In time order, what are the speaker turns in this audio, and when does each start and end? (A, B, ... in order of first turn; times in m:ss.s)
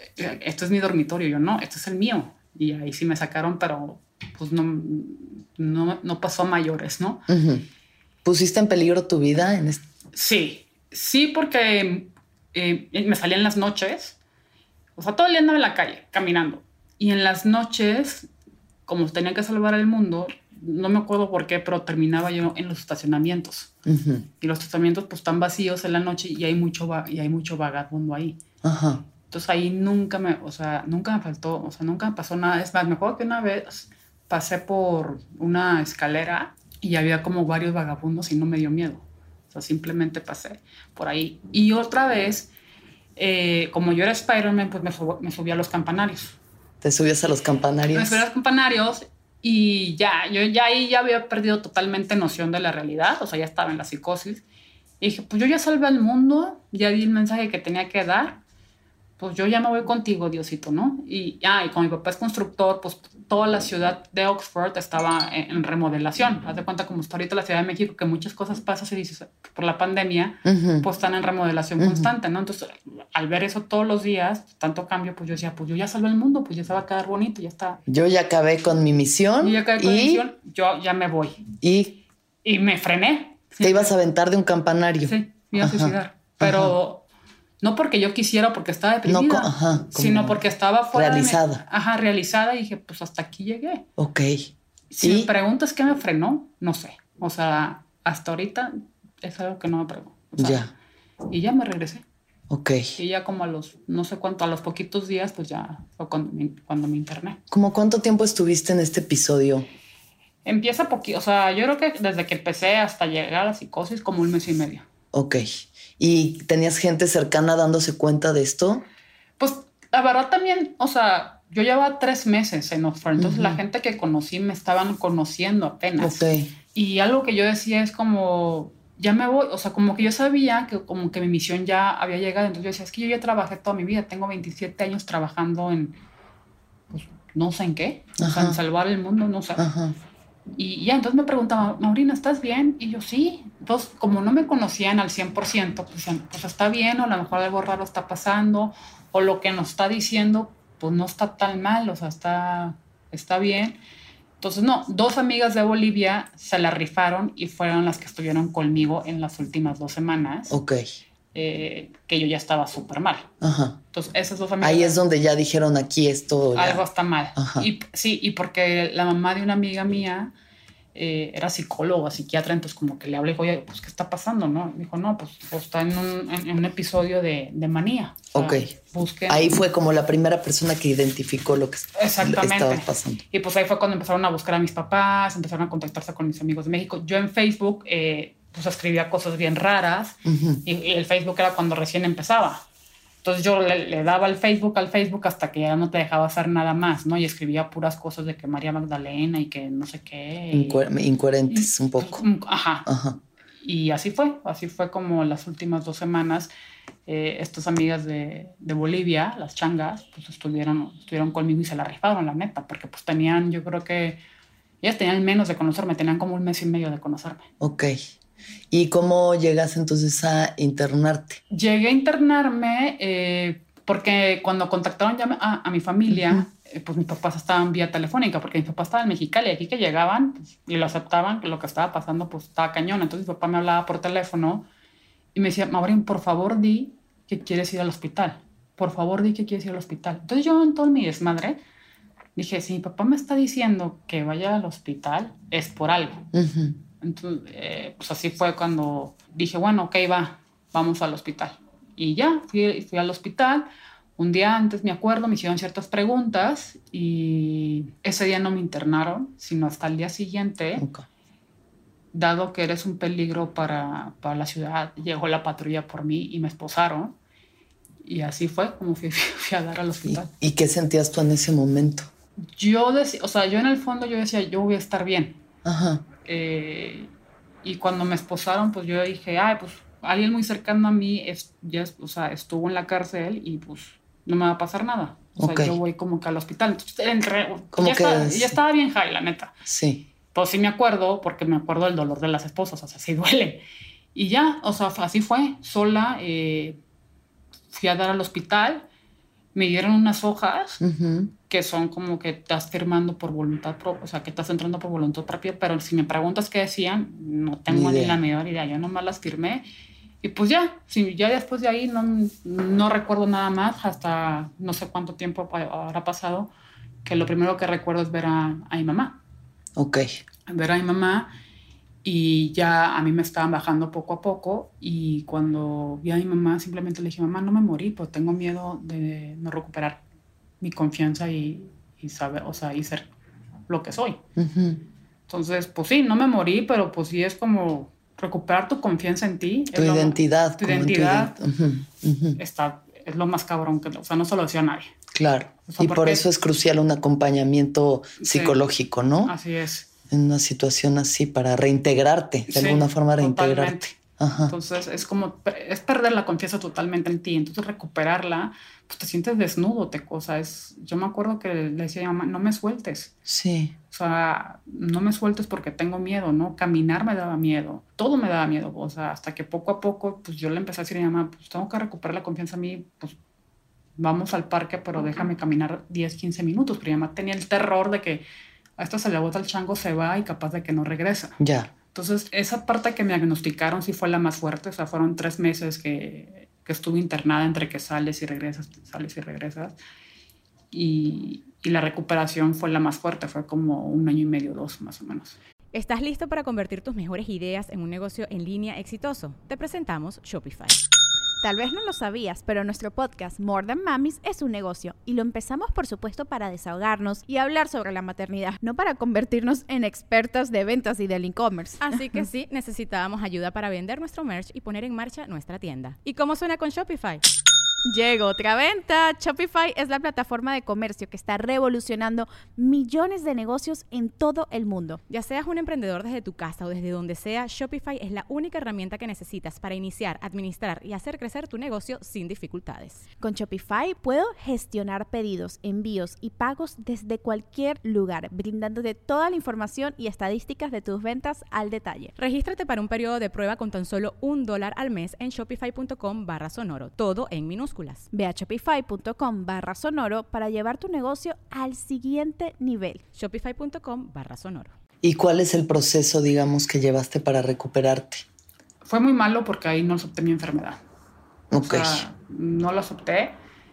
0:00.2-0:07.2 A
0:07.3-0:07.6 B
0:08.2-0:09.8 B
0:10.1-0:14.2 A
0:15.0-0:18.3 A
0:18.9-0:23.7 A
0:23.8-0:24.2 B
0:24.4-0:28.4 A
0:28.6-0:29.0 B
0:29.3-0:42.5 A
0:43.2-0:46.4 A
0:46.8-0:48.2 B
0:47.9-0:54.4 A
0:55.0-0:58.4 A
0:59.2-1:17.8 A
1:10.4-1:10.9 B
1:11.8-1:12.1 B
1:17.9-1:20.2 B
1:19.4-1:21.4 A
1:21.6-1:22.0 B
1:22.4-1:23.9 A
1:23.6-1:26.7 B
1:25.0-1:27.0 A
1:27.6-1:33.8 A
1:29.0-1:30.4 B
1:30.9-1:31.6 B
1:34.0-1:35.3 B
1:34.9-1:40.7 A
1:40.4-1:40.7 B
1:41.3-1:42.0 A
1:42.5-1:42.9 B
1:43.0-1:47.4 A
1:47.5-1:49.7 B
1:50.4-1:54.8 A
1:55.1-1:58.8 B
1:59.4-2:06.2 A
2:03.2-2:03.6 B
2:06.0-2:06.5 B
2:06.7-2:16.0 A
2:16.9-2:19.6 A
2:18.2-2:18.6 B
2:19.6-2:20.0 B
2:20.5-2:33.8 A
2:34.4-2:40.6 A
2:40.5-2:40.8 B
2:41.3-2:43.3 A
2:43.4-2:43.8 B
2:43.9-2:45.0 A
2:44.6-2:46.8 B
2:46.5-2:50.3 A
2:47.4-2:47.7 B
2:50.9-2:59.6 A
2:58.3-2:58.7 B
2:59.3-3:03.2 B
3:02.0-3:12.6 A
3:10.2-3:10.6 B
3:13.2-3:20.8 A
3:20.5-3:22.2 B
3:21.5-3:22.9 A
3:22.8-3:23.2 B
3:23.6-3:26.5 A
3:27.0-3:34.2 A
3:34.8-3:37.4 A
3:37.6-3:38.0 B
3:38.7-3:41.4 B
3:41.5-3:54.6 A
3:46.1-3:46.4 B
3:55.3-4:01.6 A
4:02.4-4:06.2 A
4:06.3-4:06.8 B
4:07.0-4:13.7 A
4:14.2-4:20.8 A
4:20.8-4:21.0 B
4:22.1-4:27.1 A
4:28.0-4:30.3 A
4:30.0-4:32.1 B
4:32.5-4:35.4 A
4:35.6-4:36.0 B
4:36.2-4:37.1 A
4:37.6-4:49.6 A
4:45.4-4:45.8 B
4:47.7-4:48.6 B
4:49.6-4:50.0 B
4:50.3-4:53.6 A
4:54.1-4:56.8 A
4:57.7-4:58.8 A
4:59.5-5:00.8 A
5:00.8-5:01.3 B
5:01.5-5:09.6 A
5:07.7-5:08.2 B
5:10.2-5:16.5 A
5:17.0-5:19.2 A
5:19.8-5:20.2 B
5:20.5-5:21.3 A
5:22.0-5:30.0 A
5:30.6-5:33.1 A
5:33.7-5:34.2 A
5:34.4-5:34.8 B
5:35.3-5:41.4 A
5:39.7-5:42.4 B
5:42.4-5:44.9 A
5:45.1-5:49.3 B
5:45.6-5:46.2 A
5:48.2-5:48.6 A
5:49.2-5:49.9 A
5:50.1-5:54.5 B
5:52.5-5:53.9 A
5:54.5-6:03.1 A
6:03.3-6:03.7 B
6:03.9-6:13.2 A
6:14.0-6:18.2 A
6:18.8-6:21.4 A
6:21.4-6:21.7 B
6:21.9-6:29.8 A
6:30.7-6:35.4 A
6:35.7-6:40.8 C
6:41.4-6:52.2 D
6:51.8-6:57.2 C
6:57.8-7:05.0 D
7:05.1-7:13.0 C
7:13.2-7:22.1 D
7:22.2-7:28.1 C
7:28.1-7:33.0 D
7:33.1-7:34.7 C
7:35.0-7:38.2 B
7:38.8-7:40.8 A
7:41.5-7:42.0 B
7:41.5-7:43.4 A